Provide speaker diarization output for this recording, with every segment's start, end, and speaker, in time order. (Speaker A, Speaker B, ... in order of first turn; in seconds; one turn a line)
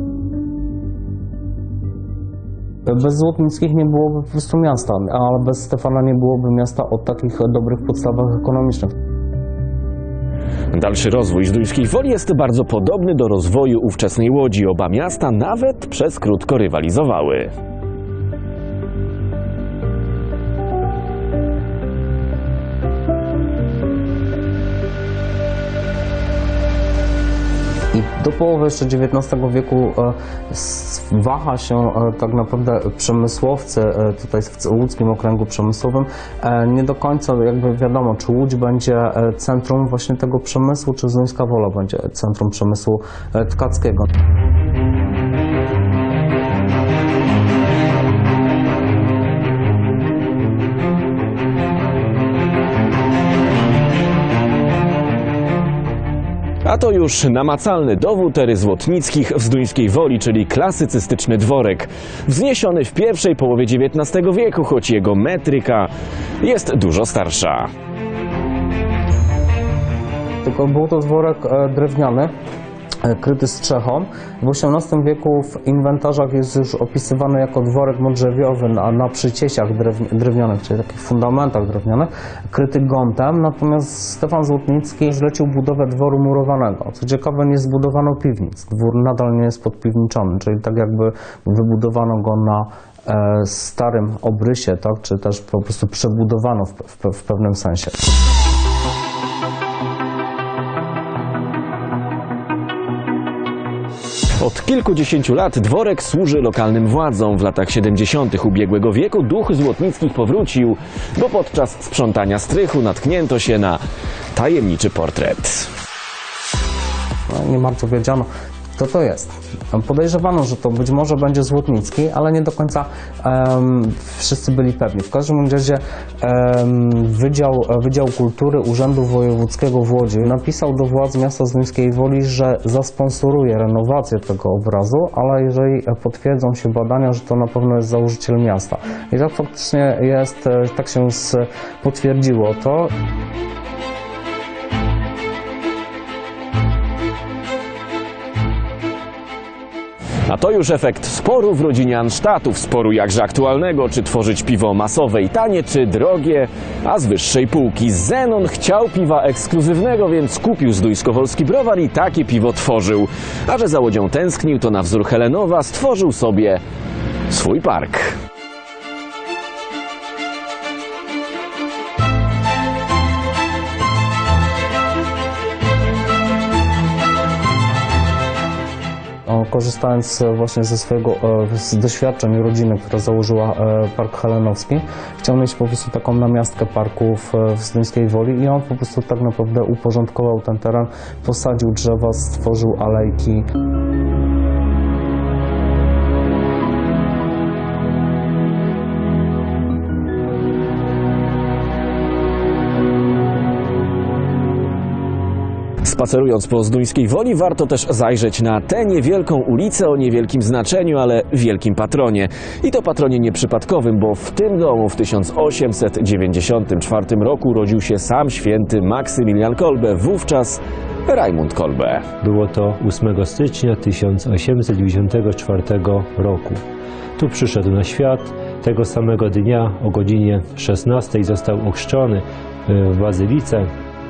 Speaker A: 2.9-8.9
Speaker B: 10.7-17.5
Speaker A: 27.9-44.1
Speaker B: 56.6-65.9
Speaker B: 66.4-67.7
Speaker A: 70.4-72.3
Speaker A: 73.0-98.0
Speaker B: 104.4-113.8
Speaker B: 114.3-115.7
Speaker A: 117.3-142.9
Speaker B: 150.3-166.6
Speaker B: 167.3-168.2
Speaker A: 179.3-193.5
Speaker B: 205.8-222.0
Speaker C: 222.2-226.6
Speaker C: 227.2-233.7